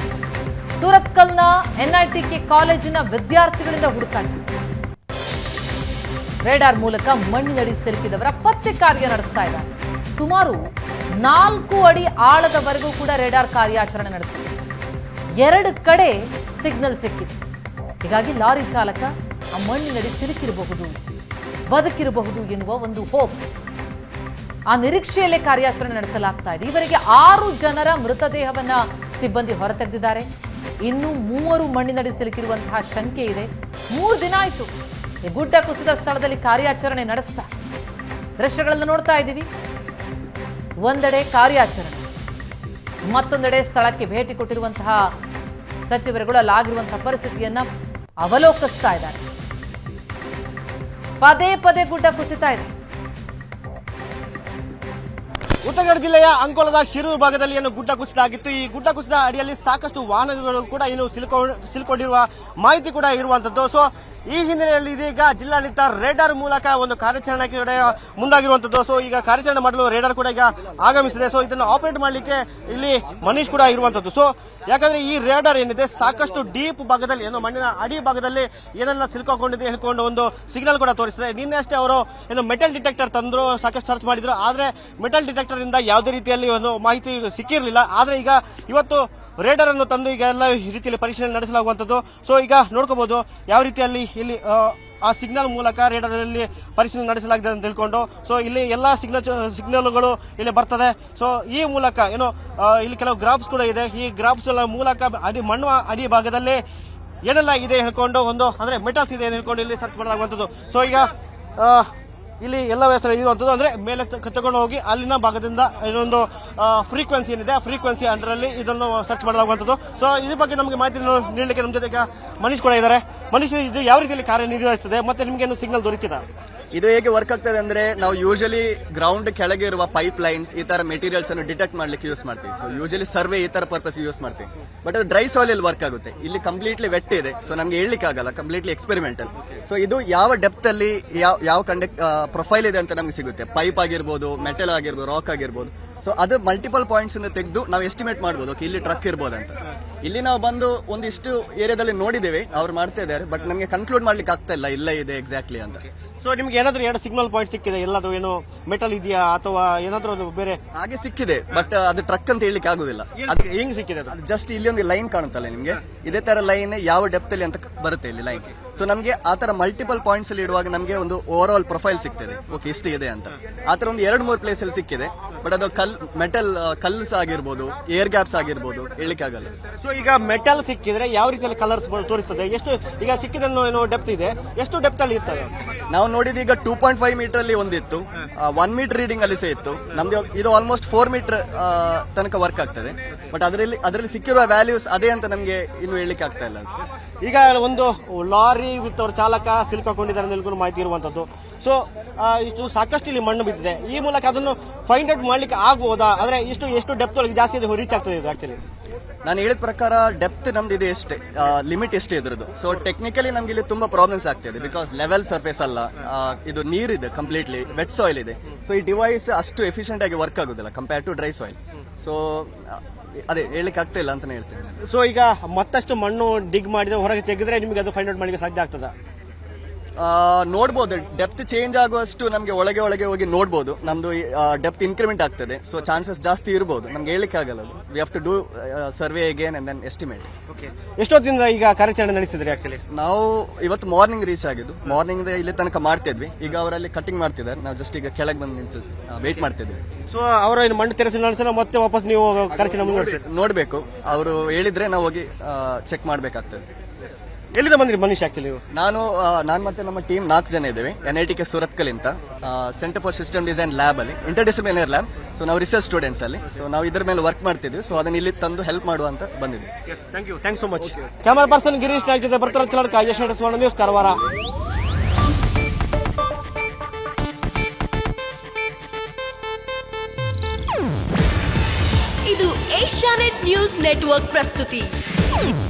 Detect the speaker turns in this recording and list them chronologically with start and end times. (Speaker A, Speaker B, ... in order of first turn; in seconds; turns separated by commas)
Speaker A: 0.8-4.4, Speaker A: 6.4-14.5, Speaker A: 15.4-17.4, Speaker A: 18.0-20.9, Speaker A: 21.7-23.4, Speaker A: 24.7-30.3, Speaker A: 30.8-34.7, Speaker A: 35.2-37.5, Speaker A: 38.4-39.5, Speaker A: 40.8-42.0, Speaker A: 43.1-45.0, Speaker A: 45.9-47.7, Speaker A: 48.2-49.2, Speaker A: 51.2-52.7, Speaker B: 55.6-106.6, Speaker B: 107.2-111.9, Speaker B: 112.4-126.2, Speaker C: 126.7-155.8, Speaker B: 156.2-160.6, Speaker C: 160.7-163.4, Speaker B: 163.2-164.1, Speaker C: 164.1-179.5, Speaker B: 179.8-185.5, Speaker C: 185.9-196.7, Speaker B: 197.2-208.6, Speaker C: 209.2-224.8, Speaker B: 224.8-228.9, Speaker C: 230.0-240.3, Speaker B: 240.5-242.8, Speaker C: 242.9-249.8, Speaker B: 250.1-253.2, Speaker C: 252.9-256.6, Speaker B: 257.6-258.6, Speaker C: 258.7-269.7, Speaker B: 269.9-274.2, Speaker D: 282.3-284.9